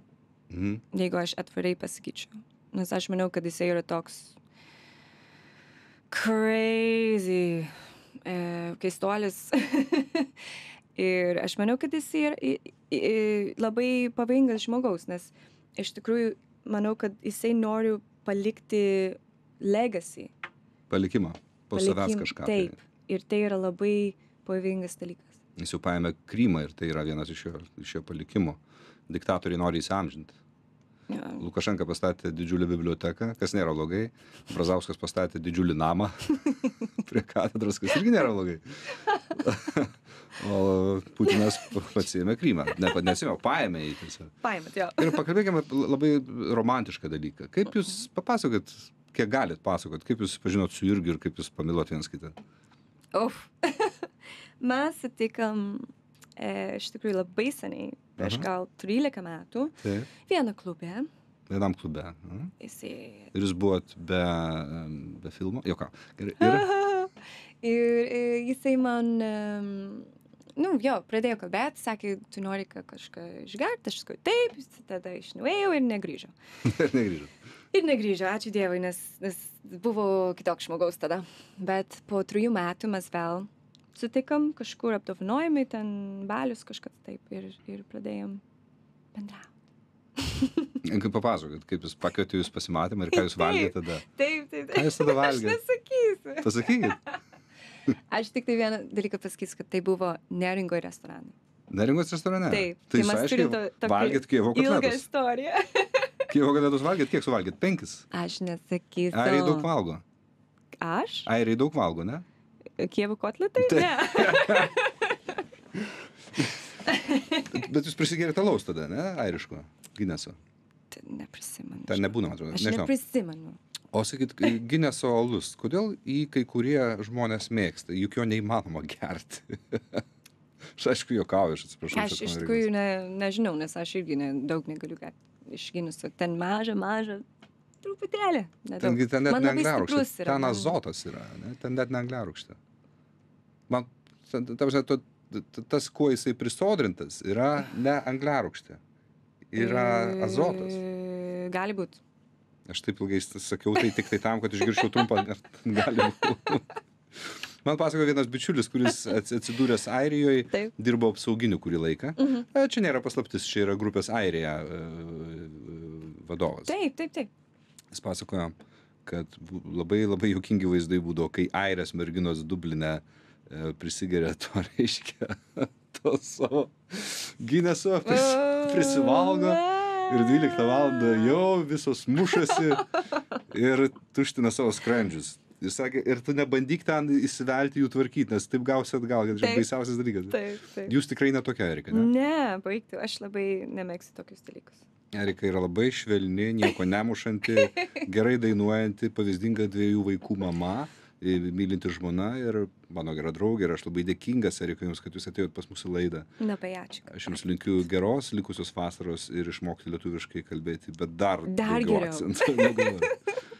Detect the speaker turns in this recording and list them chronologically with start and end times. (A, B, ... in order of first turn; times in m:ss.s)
0:00.5-0:00.8 A
0:00.9-0:04.4 B
0:06.1-0:10.3 B
0:11.0-0:20.3 B
0:20.9-0:22.8 A
0:21.7-0:25.4 B
0:25.6-0:30.4 A
0:31.1-0:31.4 B
0:31.4-0:38.7 A
0:39.3-0:44.3 A
0:44.4-0:45.2 B
0:45.0-0:52.4 A
0:53.1-0:54.1 B
0:54.6-1:01.1 B
0:58.2-0:58.5 A
0:59.8-1:00.1 A
1:01.5-1:02.5 A
1:02.6-1:03.3 B
1:03.3-1:06.7 A
1:06.4-1:07.1 B
1:07.6-1:16.3 B
1:16.6-1:17.3 A
1:17.7-1:28.4 B
1:29.1-1:29.5 B
1:30.2-1:30.8 B
1:30.8-1:34.0 A
1:33.1-1:37.0 B
1:34.7-1:35.6 A
1:36.4-1:37.0 A
1:38.1-1:41.3 B
1:41.7-1:45.1 A
1:42.5-1:46.3 B
1:46.3-1:48.0 A
1:48.1-1:49.7 B
1:49.1-1:50.0 A
1:50.8-1:51.3 B
1:51.3-1:52.3 A
1:52.8-1:55.4 B
1:53.6-1:54.7 A
1:56.9-1:57.5 B
1:57.5-2:00.4 A
2:00.9-2:03.6 B
2:01.9-2:02.9 A
2:03.9-2:10.0 A
2:10.8-2:12.7 A
2:11.9-2:17.2 B
2:17.8-2:20.8 B
2:18.8-2:22.6 A
2:23.7-2:28.8 A
2:29.5-2:30.8 A
2:29.6-2:32.0 B
2:32.7-2:36.7 A
2:37.2-2:46.7 A
2:42.2-2:42.4 B
2:46.7-2:47.3 B
2:47.9-3:02.9 A
2:58.0-3:01.3 B
3:03.5-3:12.1 A
3:09.4-3:09.7 B
3:10.3-3:10.9 B
3:11.9-3:14.8 B
3:15.1-3:26.3 A
3:26.4-3:27.3 B
3:27.1-3:33.1 A
3:31.5-3:33.1 B